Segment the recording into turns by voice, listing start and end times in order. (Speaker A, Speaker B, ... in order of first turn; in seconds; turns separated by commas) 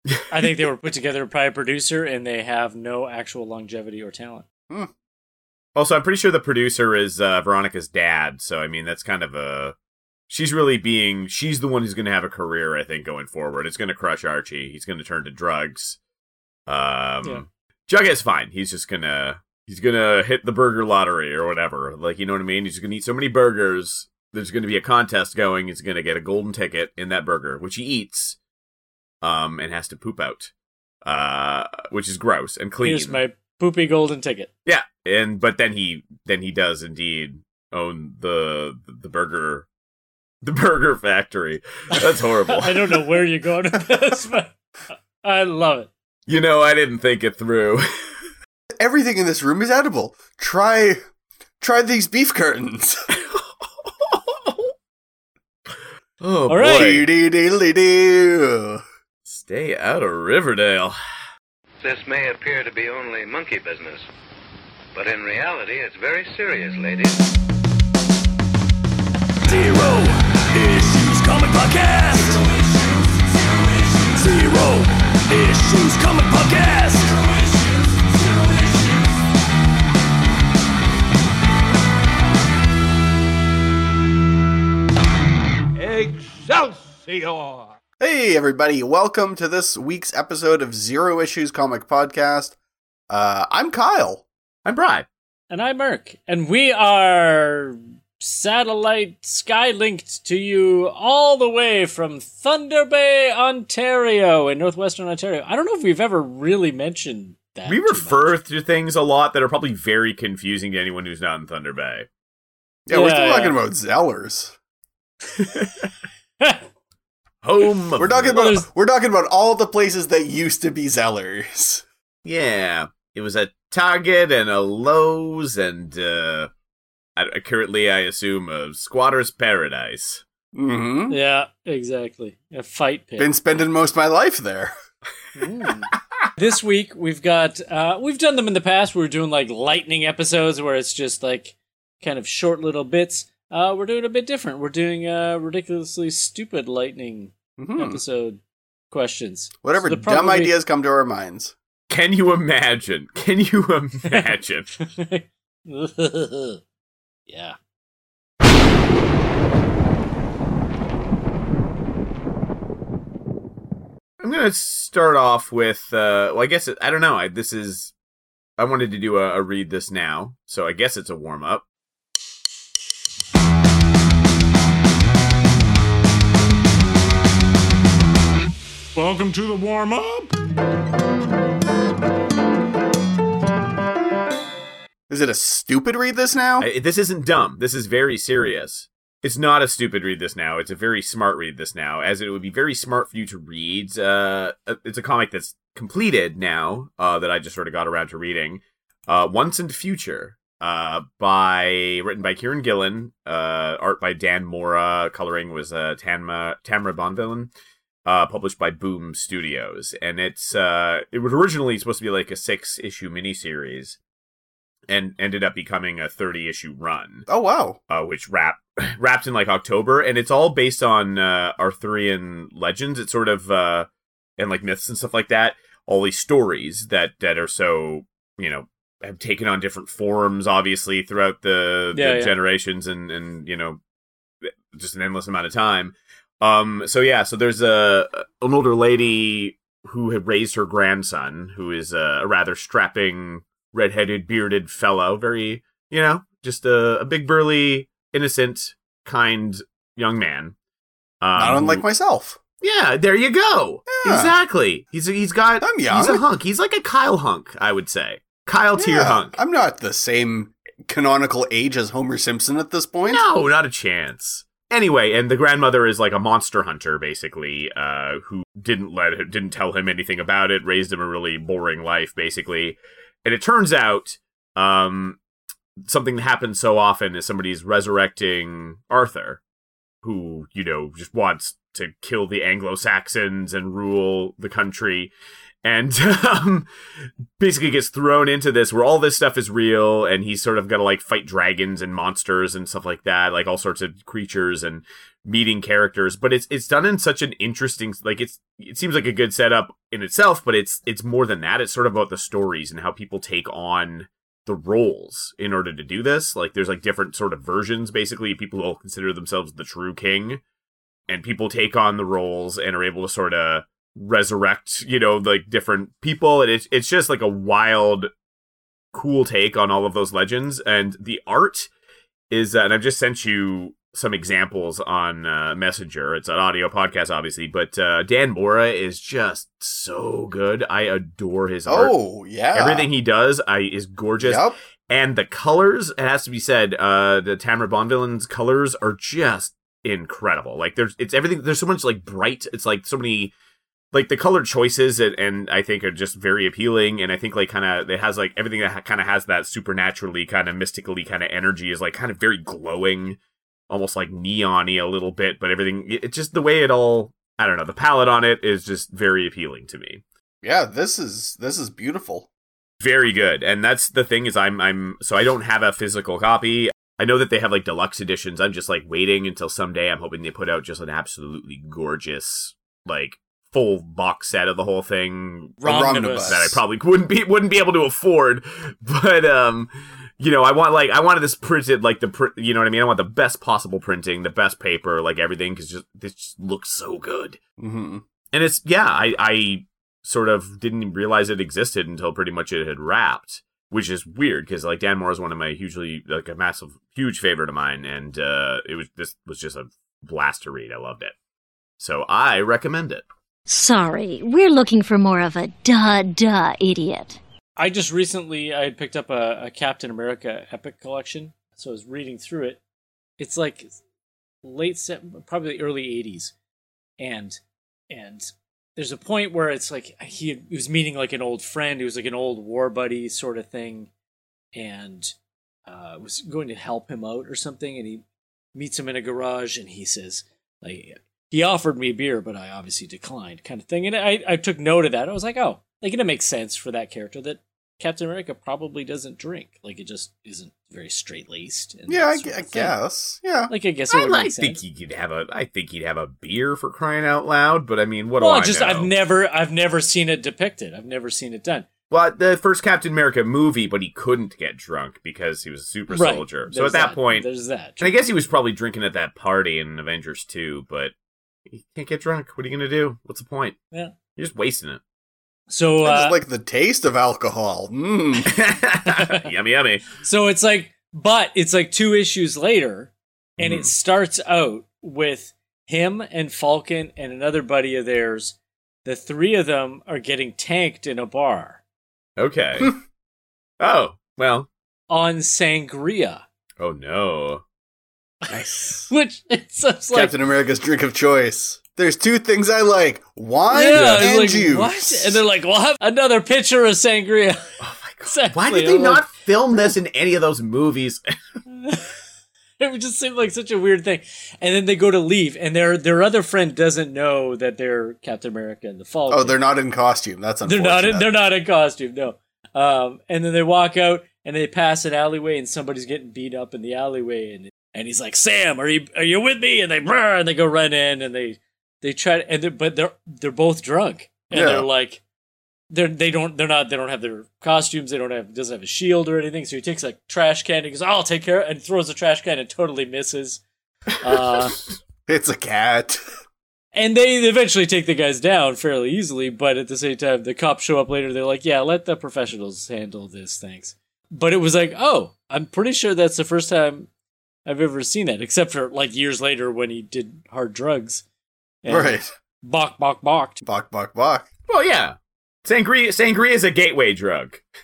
Speaker A: 0.1-0.5, Speaker B: 0.3-4.5, Speaker A: 5.7-9.8, Speaker A: 10.3-16.0, Speaker A: 16.7-28.4, Speaker A: 29.2-30.5, Speaker A: 31.0-33.2, Speaker B: 32.8-34.5, Speaker A: 34.7-39.7, Speaker A: 40.4-43.0, Speaker B: 42.5-44.5, Speaker B: 45.2-45.9, Speaker A: 46.3-47.9, Speaker C: 48.8-51.0, Speaker C: 51.6-53.0, Speaker A: 53.1-54.7, Speaker A: 56.2-57.1, Speaker B: 56.5-56.9, Speaker C: 56.7-58.8, Speaker A: 59.3-61.0, Speaker D: 61.8-64.1, Speaker D: 64.9-67.2, Speaker B: 75.5-76.8, Speaker E: 85.8-87.8, Speaker C: 88.0-92.6, Speaker C: 93.1-94.2, Speaker A: 94.7-95.1, Speaker B: 95.5-108.3, Speaker A: 107.7-112.1, Speaker C: 112.9-114.6, Speaker B: 112.9-113.6, Speaker A: 117.4-118.4, Speaker C: 118.0-121.8, Speaker B: 118.3-118.7, Speaker A: 122.2-126.5, Speaker A: 127.2-130.2, Speaker C: 130.5-131.2, Speaker B: 131.1-133.3, Speaker C: 133.2-134.7, Speaker B: 135.4-148.4, Speaker C: 147.6-148.0, Speaker B: 148.9-150.6, Speaker C: 149.6-151.6, Speaker A: 151.9-154.7, Speaker B: 154.1-156.6, Speaker B: 157.3-157.6, Speaker A: 164.2-167.9, Speaker A: 168.6-171.7, Speaker E: 179.0-180.3, Speaker C: 185.1-186.7, Speaker A: 186.6-207.5, Speaker A: 208.1-214.0, Speaker A: 214.9-217.3, Speaker C: 217.3-217.8, Speaker A: 217.9-233.8, Speaker B: 231.9-232.3, Speaker A: 234.4-250.6, Speaker A: 251.2-251.8, Speaker C: 251.4-252.4, Speaker A: 252.6-259.4, Speaker C: 253.9-254.3, Speaker C: 255.6-256.2, Speaker C: 258.8-263.2, Speaker A: 263.1-275.2, Speaker A: 275.8-279.4, Speaker A: 280.0-285.1, Speaker A: 285.6-286.7, Speaker A: 287.4-310.4, Speaker A: 311.1-318.1, Speaker A: 318.9-321.7, Speaker A: 322.3-331.9, Speaker C: 331.7-332.9, Speaker A: 332.5-343.3, Speaker C: 334.2-334.6, Speaker A: 343.9-360.0, Speaker C: 360.4-362.3, Speaker A: 362.8-375.6, Speaker B: 375.6-376.4, Speaker C: 375.6-376.6, Speaker A: 376.2-387.4, Speaker C: 387.6-388.0, Speaker A: 388.3-401.1, Speaker A: 401.8-403.1, Speaker F: 403.5-407.2, Speaker B: 407.6-412.6, Speaker B: 413.2-413.7, Speaker B: 414.4-416.3, Speaker B: 417.0-417.4, Speaker B: 417.9-423.9, Speaker B: 424.6-425.1, Speaker B: 425.7-428.0, Speaker B: 428.6-442.8, Speaker C: 441.9-443.5, Speaker B: 443.5-444.6, Speaker A: 443.9-448.9, Speaker B: 448.2-451.7, Speaker A: 451.9-457.2, Speaker B: 455.9-457.9, Speaker A: 457.8-460.9, Speaker A: 461.5-463.6, Speaker A: 464.2-464.8, Speaker B: 465.5-466.2, Speaker C: 465.8-468.3, Speaker A: 468.2-469.9, Speaker B: 468.9-469.3, Speaker B: 470.0-481.6, Speaker A: 473.4-473.7, Speaker A: 482.2-482.8, Speaker A: 483.6-484.5, Speaker B: 484.9-486.2, Speaker A: 486.6-487.4, Speaker B: 488.2-490.1, Speaker C: 488.3-488.9, Speaker C: 489.9-495.2, Speaker B: 493.5-497.4, Speaker A: 497.6-501.0, Speaker B: 498.1-499.1, Speaker B: 501.5-501.9, Speaker B: 502.6-509.4, Speaker C: 509.1-511.1, Speaker B: 510.4-525.0, Speaker C: 524.3-524.6, Speaker B: 525.7-533.4, Speaker B: 534.0-534.6, Speaker A: 534.0-534.5, Speaker C: 535.1-536.0, Speaker B: 536.7-546.9, Speaker B: 547.5-551.0, Speaker B: 551.6-553.4, Speaker C: 551.7-552.1, Speaker C: 553.4-554.3, Speaker A: 554.5-557.4